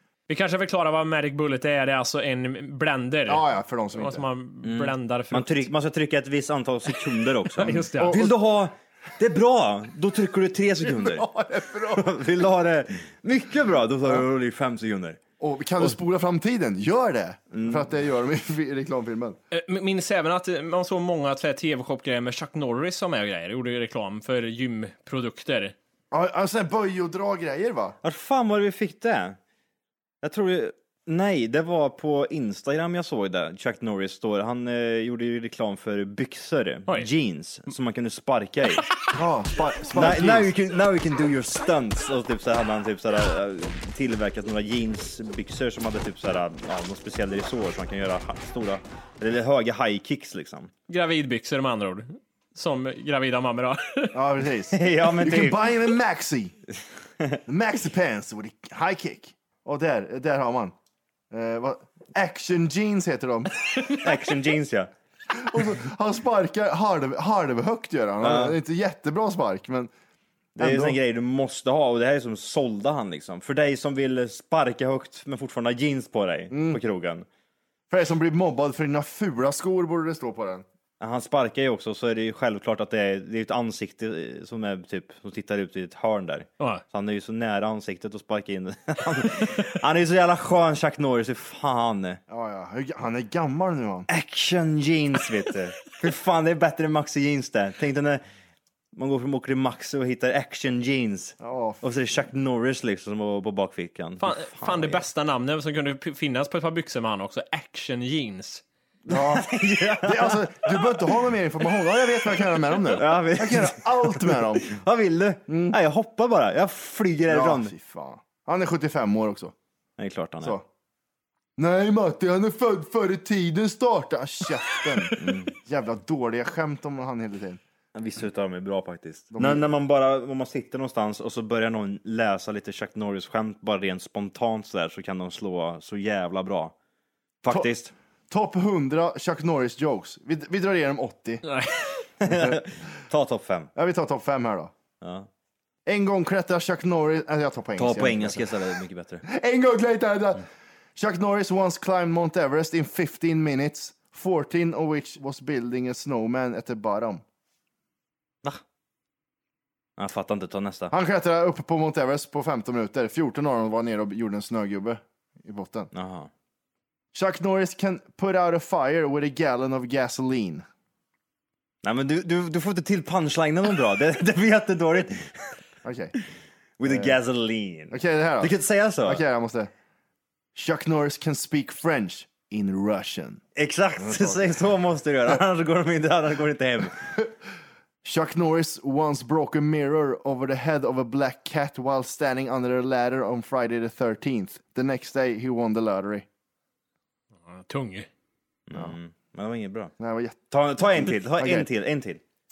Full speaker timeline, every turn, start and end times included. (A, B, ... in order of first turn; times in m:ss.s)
0:00.3-0:03.4 A
0:03.3-0:04.2 B
0:04.0-0:05.7 A
0:04.6-0:11.3 C
0:07.6-0:08.2 A
0:08.0-0:08.3 B
0:10.8-0:12.2 B
0:11.9-0:15.2 C
0:15.4-0:19.4 B
0:17.5-0:17.8 C
0:19.5-0:25.8 A
0:26.1-0:28.0 B
0:28.0-0:29.4 C
0:30.2-0:38.9 C
0:39.1-0:40.5 B
0:39.9-0:50.7 C
0:50.9-0:54.2 A
0:54.1-0:56.6 B
0:54.7-0:55.7 C
0:57.5-1:00.7 B
1:01.3-1:03.5 B
1:04.0-1:04.9 C
1:05.3-1:09.9 B
1:08.2-1:08.6 C
1:10.6-1:11.0 B
1:10.6-1:17.3 C
1:16.5-1:16.8 B
1:17.9-1:20.6 B
1:21.0-1:32.2 C
1:32.3-1:34.1 B
1:34.1-1:38.2 C
1:38.9-1:45.0 C
1:41.4-1:41.8 B
1:44.2-1:48.6 A
1:49.1-1:51.1 C
1:49.1-1:49.5 B
1:50.0-1:54.7 B
1:52.9-1:57.7 C
1:55.5-1:55.8 B
1:57.3-1:59.5 B
2:00.0-2:00.6 C
2:01.6-2:07.6 B
2:05.2-2:05.5 C
2:07.9-2:16.8 C
2:09.3-2:09.6 B
2:17.4-2:17.9 C
2:18.3-2:21.4 B
2:21.4-2:22.0 A
2:22.2-2:23.7 C
2:22.3-2:22.6 B
2:23.8-2:24.7 B
2:25.0-2:25.3 C
2:25.9-2:28.6 B
2:27.8-2:29.2 C
2:29.3-2:37.2 B
2:40.0-2:40.9 C
2:40.9-2:45.9 B
2:45.9-2:46.3 C
2:47.1-2:50.6 B
2:51.8-2:55.6 C
2:55.8-2:56.2 B
2:56.8-2:59.2 C
2:56.8-2:57.2 B
2:57.9-2:59.7 B
3:00.6-3:03.4 B
3:03.6-3:07.0 C
3:04.0-3:04.6 B
3:08.0-3:16.3 B
3:17.5-3:18.1 A
3:18.7-3:19.9 C
3:20.0-3:21.7 B
3:20.5-3:22.2 C